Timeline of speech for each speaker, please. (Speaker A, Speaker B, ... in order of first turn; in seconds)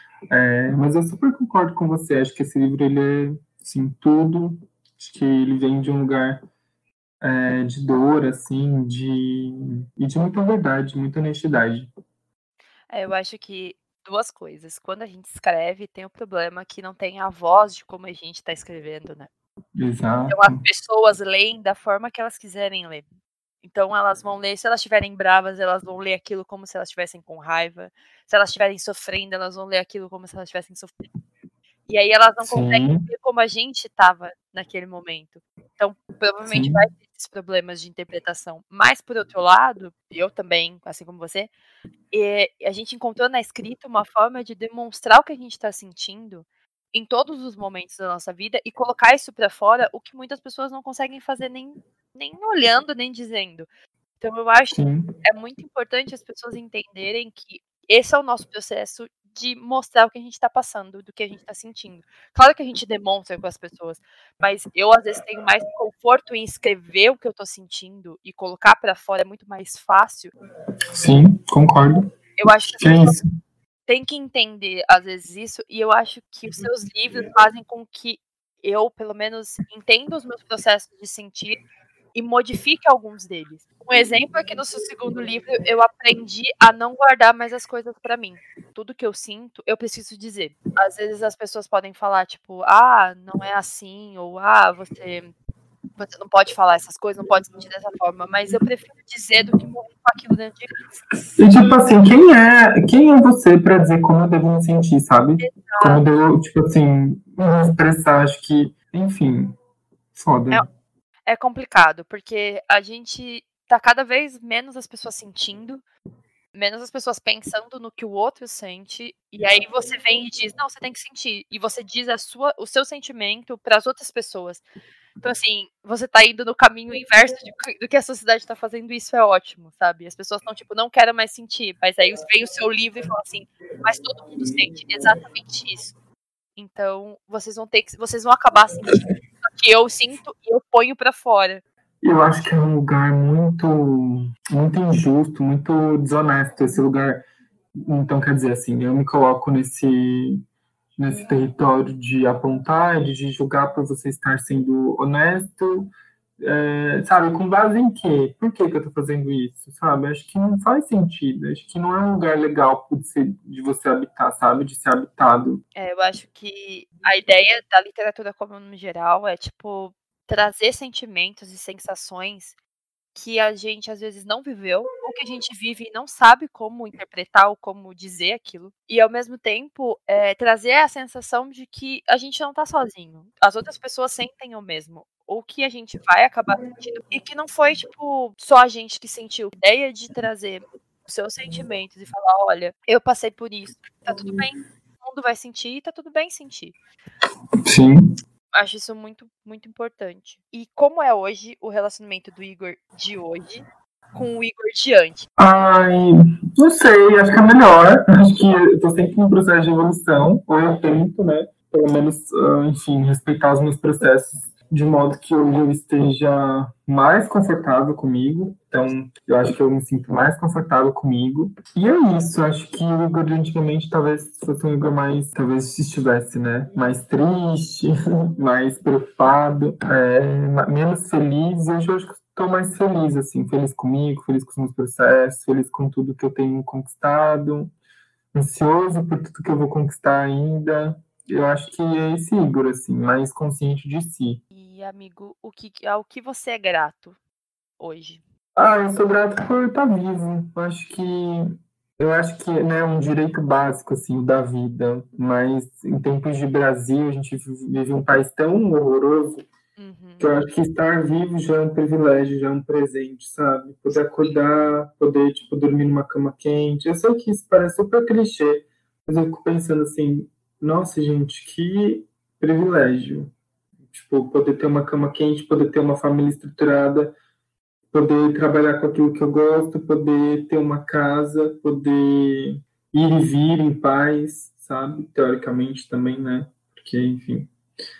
Speaker A: 0.3-6.4, 7.2-11.9, 19.8-20.6, 32.4-33.1, 36.5-36.8, 54.7-55.1, 70.9-72.1, 72.8-73.2, 101.4-109.6, 110.1-110.6, 142.0-147.2, 147.8-150.4, 151.0-165.6, 194.1-194.4, 197.7-198.0, 205.4-237.7, 238.3-244.4, 248.6-259.4, 260.2-273.3, 273.9-277.1, 277.9-287.5
Speaker B: 12.9-19.3, 20.3-23.0, 23.6-31.1, 31.9-41.5, 42.1-53.7, 54.2-70.3, 72.4-73.2, 73.9-81.6, 82.1-95.3, 96.0-101.0, 105.4-106.0, 111.2-115.8, 116.5-124.6, 125.2-135.9, 136.6-141.6, 165.8-172.5, 173.1-196.8, 198.5-205.3, 244.5-247.2, 247.8-248.2, 259.8-260.3